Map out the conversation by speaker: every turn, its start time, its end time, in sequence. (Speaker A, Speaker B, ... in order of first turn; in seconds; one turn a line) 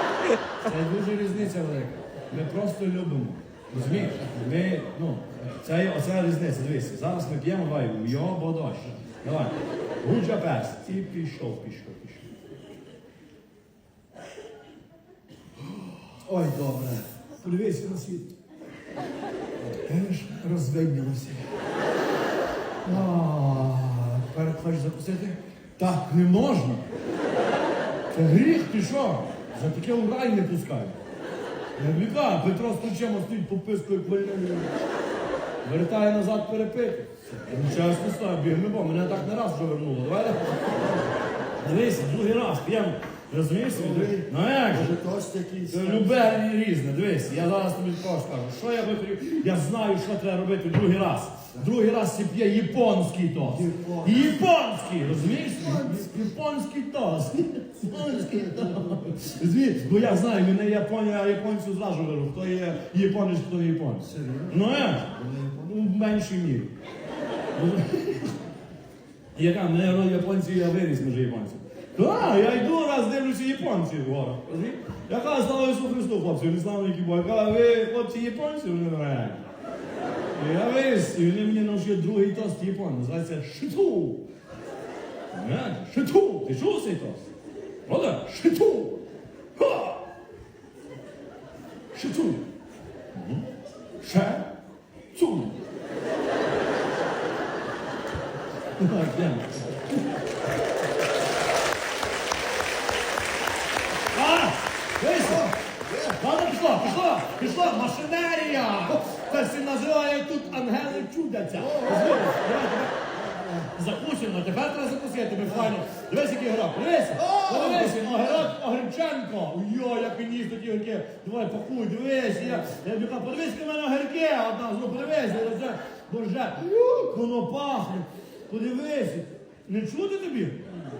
Speaker A: 0.6-12.3
Speaker B: 3.7-4.4
Speaker A: 16.2-18.3
Speaker A: 19.7-21.5
Speaker A: 22.8-26.8
Speaker A: 28.1-30.9
Speaker A: 31.8-34.8
Speaker A: 35.6-41.0
Speaker A: 41.6-44.9
Speaker B: 43.7-46.2
Speaker A: 45.7-66.7
Speaker B: 53.4-54.4
Speaker B: 55.5-56.0
Speaker B: 64.1-65.7
Speaker A: 67.5-68.3
Speaker A: 69.3-79.4
Speaker A: 80.3-84.2
Speaker A: 85.3-87.2
Speaker A: 87.8-89.0
Speaker A: 89.5-90.0
Speaker A: 91.9-92.4
Speaker A: 93.1-93.5
Speaker A: 94.0-94.5
Speaker A: 95.1-95.6
Speaker A: 98.8-100.0
Speaker A: 104.1-105.5
Speaker B: 105.2-106.2
Speaker A: 106.1-113.0
Speaker B: 111.5-112.4
Speaker B: 113.2-113.7
Speaker A: 113.6-130.7
Speaker B: 117.2-118.4
Speaker B: 126.8-127.1